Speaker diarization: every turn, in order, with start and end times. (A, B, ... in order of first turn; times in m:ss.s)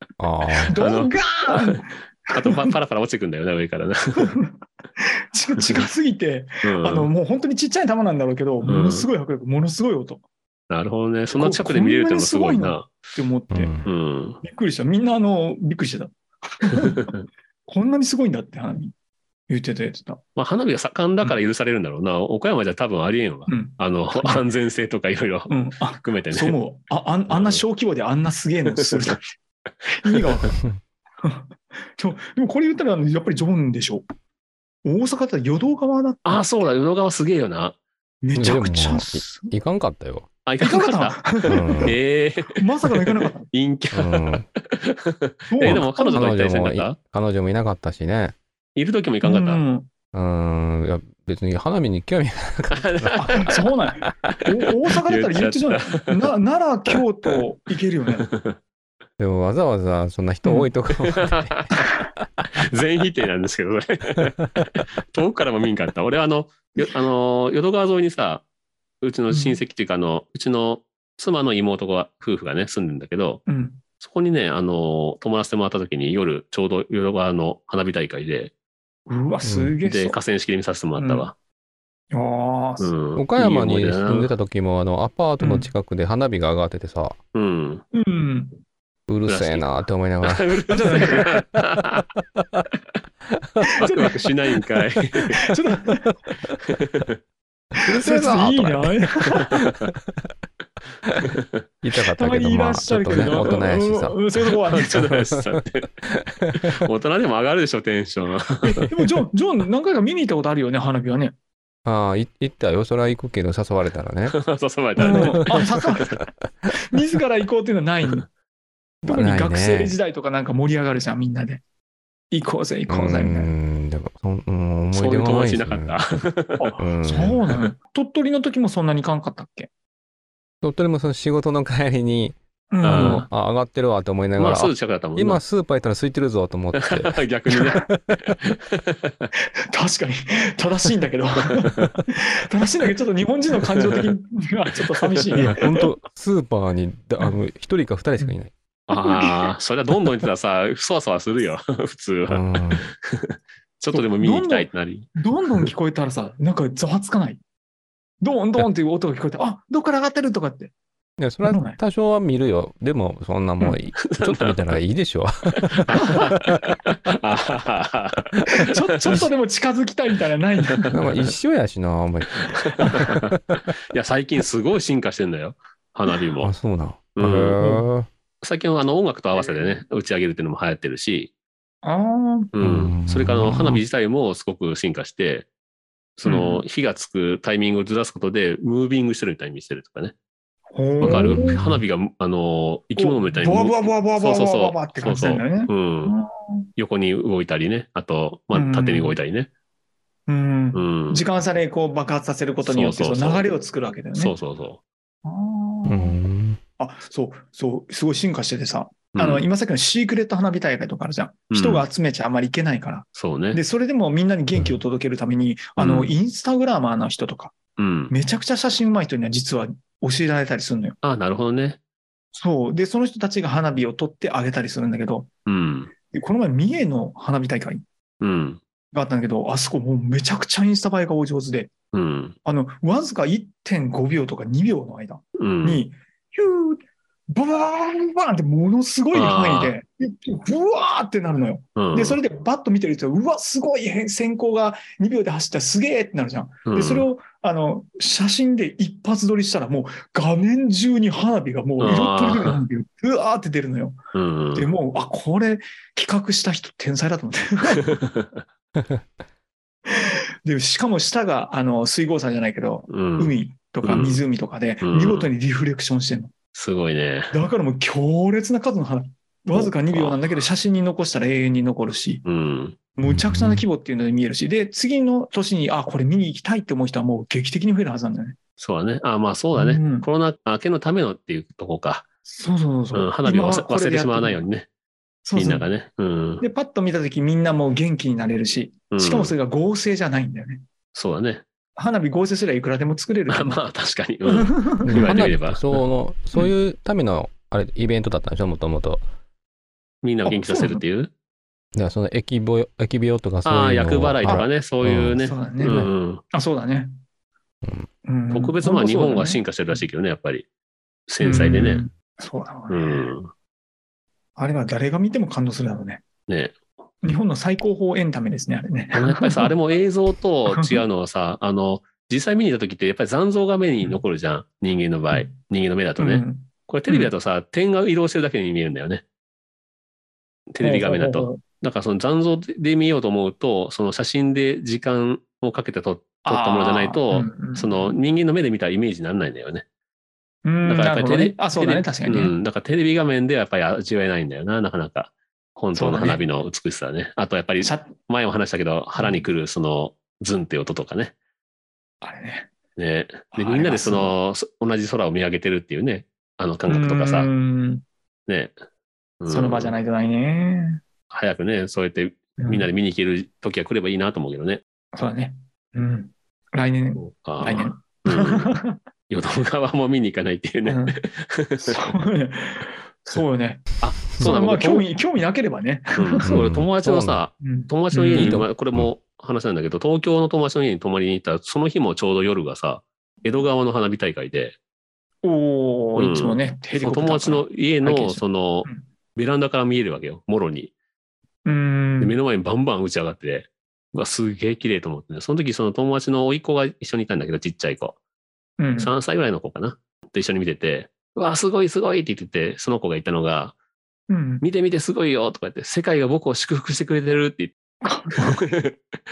0:00.2-0:00.8 A
0:00.7-0:02.8 B
0:00.8-0:04.3 C
0:04.2-0:10.2 B
0:06.6-0:07.1 C
0:08.6-0:09.1 C
0:10.7-0:13.0 C
0:11.3-0:13.8 B
0:13.5-0:13.9 A
0:13.8-0:14.4 C
0:14.4-0:17.1 B
0:16.8-0:17.2 C
0:17.7-0:18.9 B
0:19.5-0:20.2 B
0:20.4-0:26.6 C
0:23.5-0:24.4 B
0:25.5-0:29.2 B
0:27.3-0:27.6 C
0:29.9-0:30.6 B
0:31.2-0:34.0 B
0:34.8-0:36.4 B
0:36.2-0:37.8 C
0:38.2-0:39.5 B
0:38.4-0:40.3 A
0:40.5-0:47.0 C
0:40.6-0:42.0 B
0:41.5-0:42.0 A
0:42.6-0:43.5 B
0:43.9-0:44.5 A
0:45.5-0:46.3 B
0:45.6-0:48.4 A
0:48.8-0:49.6 C
0:49.2-0:49.9 B
0:50.1-0:53.5 A
0:52.7-0:53.6 C
0:53.2-0:58.3 B
0:55.1-0:56.2 C
0:58.3-0:58.6 C
0:59.2-1:01.7 A
1:01.2-1:01.9 C
1:02.6-1:08.4 C
1:09.0-1:13.4 C
1:09.3-1:09.6 B
1:13.5-1:13.8 B
1:14.0-1:18.5 C
1:19.1-1:20.2 B
1:19.4-1:19.8 A
1:19.8-1:21.3 C
1:21.0-1:21.3 B
1:22.1-1:22.9 B
1:22.8-1:24.3 C
1:23.2-1:27.2 A
1:25.4-1:25.7 B
1:27.3-1:27.8 C
1:27.9-1:28.6 B
1:29.1-1:31.3 A
1:29.3-1:32.0 C
1:30.7-1:31.2 B
1:33.8-1:34.2 B
1:33.9-1:35.4 C
1:35.3-1:36.1 B
1:36.7-1:37.1 C
1:37.8-1:39.9 A
1:37.9-1:39.6 B
1:41.2-1:41.5 C
1:41.8-1:44.3 A
1:42.0-1:45.1 B
1:43.2-1:43.5 C
1:44.4-1:45.9 C
1:46.1-1:46.5 A
1:46.6-1:48.9 C
1:48.7-1:51.3 B
1:51.8-1:54.4 A
1:54.3-1:56.2 C
1:55.0-1:55.6 A
1:55.0-1:56.0 B
1:56.9-1:58.2 B
1:59.0-2:00.0 A
1:59.1-2:01.6 B
2:02.3-2:03.5 B
2:02.9-2:06.0 A
2:04.9-2:06.8 C
2:06.6-2:09.7 B
2:06.8-2:07.4 A
2:10.6-2:18.2 A
2:12.7-2:13.3 B
2:12.8-2:13.2 C
2:14.4-2:15.4 C
2:16.8-2:19.3 C
2:19.7-2:25.7 B
2:23.8-2:24.1 C
2:25.0-2:25.5 C
2:25.4-2:28.5 A
2:28.9-2:35.7 C
2:29.0-2:29.5 B
2:32.3-2:32.8 A
2:33.9-2:37.4 B
2:38.2-2:40.7 B
2:41.2-2:46.5 A
2:41.5-2:41.8 B
2:43.6-2:44.6 C
2:45.9-2:49.3 C
2:48.6-2:51.0 B
2:50.9-2:53.4 A
2:52.5-2:53.2 C
2:53.9-2:56.5 C
2:56.4-2:58.1 A
2:57.2-2:57.6 C
2:58.4-3:01.3 C
3:01.8-3:02.5 B
3:02.5-3:05.5 C
3:02.6-3:03.8 A
3:06.2-3:10.2 C
3:06.2-3:06.6 B
3:10.7-3:11.6 B
3:11.0-3:16.2 C
3:11.0-3:11.8 A
3:13.0-3:16.7 B
3:16.8-3:19.5 C
3:18.5-3:19.2 B
3:20.3-3:24.4 B
3:20.7-3:21.2 C
3:22.6-3:23.5 C
3:24.2-3:24.8 C
3:25.2-3:26.2 B
3:25.9-3:26.6 A
3:26.8-3:37.6 B
3:29.1-3:29.5 C
3:31.5-3:31.9 C
3:33.2-3:33.6 C
3:35.8-3:36.1 C
3:37.8-3:38.1 C
3:38.1-3:41.0 B
3:41.0-3:41.8 C
3:42.4-3:45.3 B
3:45.5-3:45.9 C
3:46.1-3:47.8 B
3:48.2-3:48.6 C
3:48.9-3:51.7 B
3:51.9-3:52.4 C
3:52.4-3:56.8 B
3:55.4-3:55.8 C
3:57.3-4:14.0 B
3:59.1-3:59.8 C
4:01.8-4:02.2 C
4:06.6-4:07.1 C
4:11.8-4:12.6 C
4:14.1-4:14.7 C
4:14.5-4:17.9 B
4:17.9-4:18.4 C
4:19.9-4:26.3 B
4:22.9-4:24.2 C
4:24.8-4:25.3 C
4:26.5-4:27.4 C
4:27.3-4:32.2 B
4:29.6-4:30.2 C
4:32.2-4:32.8 C
4:33.0-4:38.4 B
4:33.0-4:33.7 A
4:38.6-4:42.0 C
4:39.6-4:40.1 B
4:42.3-4:44.5 B
4:42.9-4:44.7 C
4:45.2-4:45.7 B
4:45.3-4:46.4 C
4:46.4-4:50.6 B
4:48.9-4:49.4 C
4:50.9-4:51.4 C
4:51.8-4:53.6 B
4:53.3-4:55.8 C
4:54.2-4:55.3 B
4:54.8-4:59.0 A
5:00.0-5:01.1 C
5:00.2-5:00.8 B
5:01.8-5:05.9 A
5:03.4-5:06.2 C
5:05.2-5:06.9 B
5:08.0-5:09.8 B
5:08.3-5:10.5 C
5:11.1-5:11.9 C
5:11.2-5:13.0 B
5:12.7-5:13.3 C
5:14.4-5:16.0 B
5:16.3-5:16.6 C
5:17.0-5:19.5 B
5:18.9-5:29.0 C
5:20.5-5:20.8 B
5:26.0-5:27.1 B
5:30.5-5:39.7 C
5:30.6-5:31.4 B
5:36.3-5:38.0 B
5:40.4-5:42.4 B
5:40.6-5:51.2 C
5:45.7-5:46.2 B
5:47.6-5:47.9 B
5:49.0-5:49.3 B
5:52.0-5:52.5 B
5:52.8-5:57.3 C
5:53.3-5:54.2 B
5:56.7-5:57.8 B
5:58.3-5:58.5 C
5:59.2-5:59.8 C
5:59.3-6:00.8 B
6:01.1-6:04.6 C
6:02.4-6:02.7 B
6:04.9-6:08.8 B
6:07.0-6:08.5 C
6:09.1-6:11.9 C
6:10.7-6:11.0 B
6:11.6-6:13.7 B
6:13.8-6:14.9 C
6:14.2-6:16.4 B
6:16.0-6:24.6 C
6:16.2-6:17.2 A
6:17.4-6:18.5 B
6:18.1-6:18.9 A
6:25.2-6:28.8 B
6:26.0-6:30.7 C
6:31.4-6:32.2 B
6:32.0-6:38.0 C
6:38.6-6:38.9 B
6:38.8-6:43.6 C
6:44.1-6:44.4 B
6:44.4-6:47.5 C
6:47.8-6:48.4 B
6:48.2-6:48.8 C